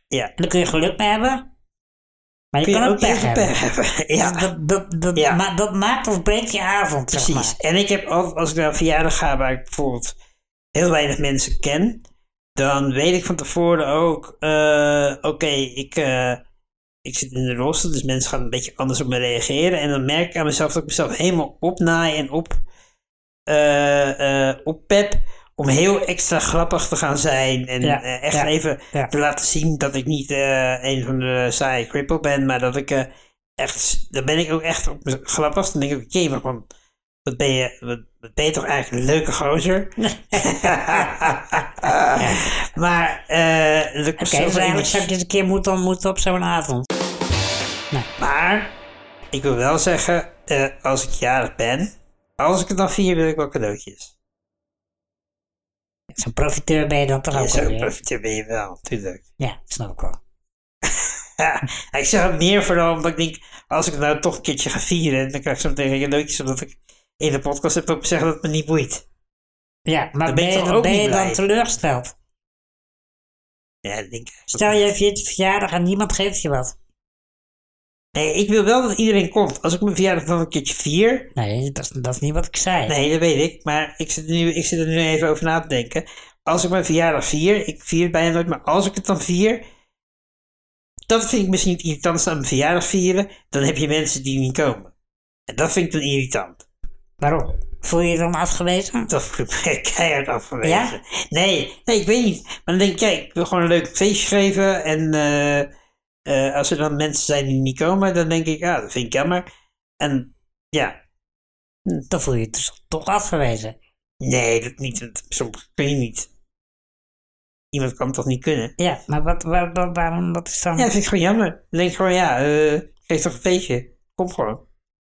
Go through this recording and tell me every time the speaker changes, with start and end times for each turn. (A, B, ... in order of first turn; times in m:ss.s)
0:00.4-0:01.4 A
0:02.5-0:03.5 A
0:02.6-0:04.5 B
0:04.2-0:07.5 A
0:05.1-0:05.4 B
0:07.1-0:10.1 B
0:10.7-0:12.0 B
0:12.6-0:16.4 B
0:17.0-0:22.6 B
0:23.5-0:36.6 B
0:27.8-0:29.1 A
0:37.2-0:45.1 B
0:40.0-0:41.1 A
0:44.2-0:46.8 A
0:48.2-0:48.7 B
0:49.3-0:54.1 B
0:56.1-0:57.9 A
0:57.3-0:59.2 B
0:59.4-1:00.2 A
1:00.8-1:09.0 B
1:09.9-1:12.1 A
1:10.3-1:11.4 B
1:13.8-1:14.8 B
1:14.5-1:16.7 A
1:18.1-1:21.3 B
1:21.4-1:22.9 A
1:22.9-1:29.6 B
1:31.1-1:34.9 B
1:35.5-1:36.6 B
1:37.2-1:39.1 A
1:39.1-1:45.7 B
1:40.6-1:40.9 A
1:46.2-1:49.4 B
1:50.0-1:51.0 B
1:52.1-1:53.8 A
1:54.2-1:56.3 B
1:57.7-1:58.7 B
1:58.8-2:00.9 A
2:00.8-2:04.6 B